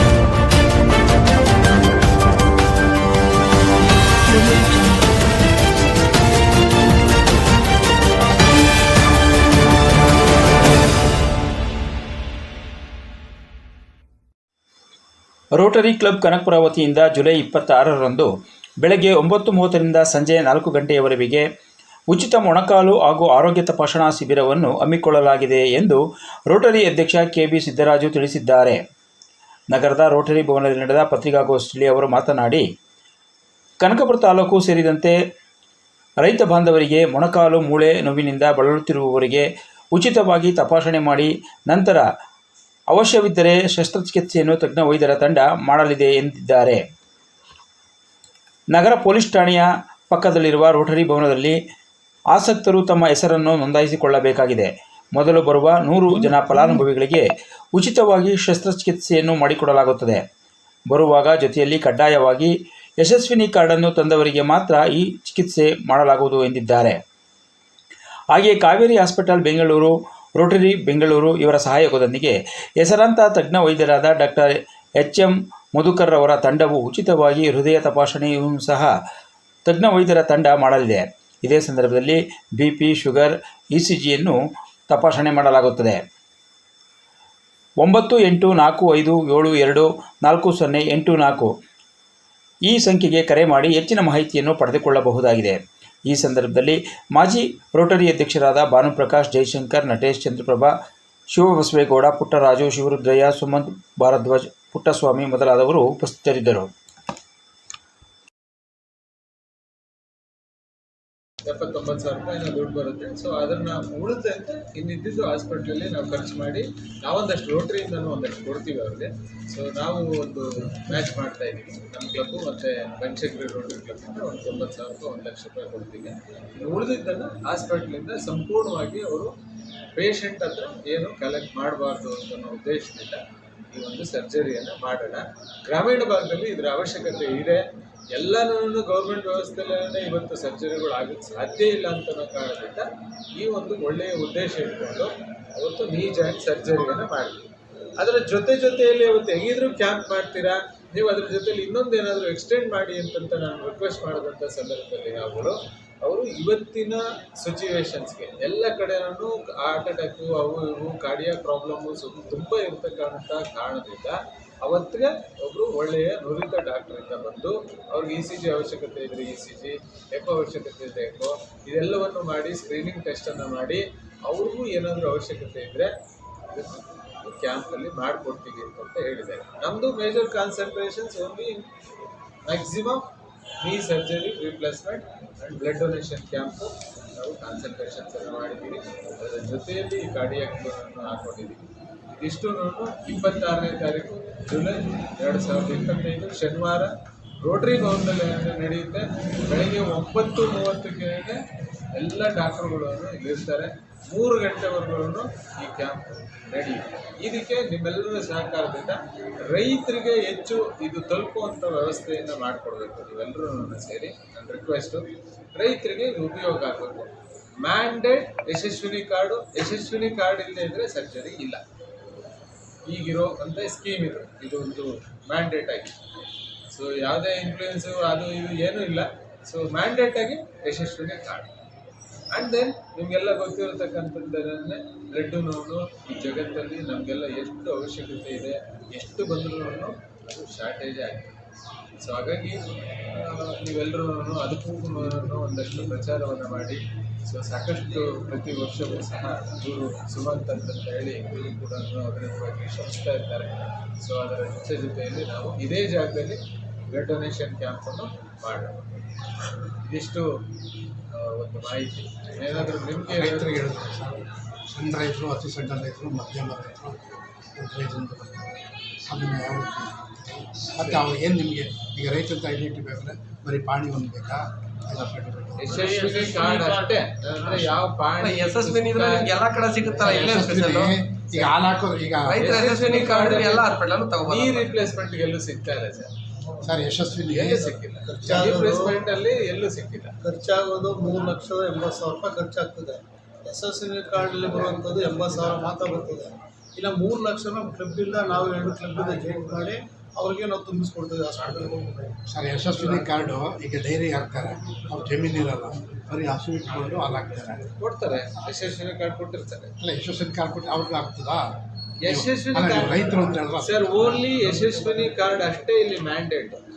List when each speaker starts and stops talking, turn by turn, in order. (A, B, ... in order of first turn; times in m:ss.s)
0:04.3-0:05.0 A
0:15.5-0:21.4 B
0:22.1-0:28.8 B
0:29.7-0:32.6 B
0:33.8-0:35.1 B
0:36.2-0:42.0 B
0:42.9-0:46.8 B
0:48.7-0:51.6 B
0:52.3-1:00.2 B
1:00.9-1:07.0 B
1:08.3-1:18.9 B
1:19.6-1:24.4 B
1:24.9-1:26.0 B
1:27.8-1:31.5 B
1:32.6-1:40.7 B
1:41.3-1:46.7 B
1:51.4-2:09.3 C
2:09.9-2:27.5 C
2:28.0-2:55.9 C
2:56.5-3:01.7 C
3:02.4-3:03.1 C
3:03.6-3:21.4 C
3:21.9-3:41.6 C
3:42.9-3:46.0 C
3:46.7-3:51.5 C
3:52.3-4:01.3 C
4:02.0-4:18.8 C
4:19.8-4:20.4 C
4:21.1-4:23.6 C
4:23.0-4:35.8 D
4:35.6-4:39.4 C
4:35.8-4:36.9 A
4:37.6-4:40.9 A
4:40.0-4:42.6 D
4:42.3-4:44.7 A
4:42.3-4:46.1 C
4:46.6-4:48.4 D
4:47.3-4:50.2 C
4:48.0-4:49.0 E
4:50.2-5:02.0 E
5:02.3-5:07.7 D
5:07.8-5:09.7 C
5:09.8-5:11.5 D
5:12.0-5:16.6 C
5:12.0-5:13.9 D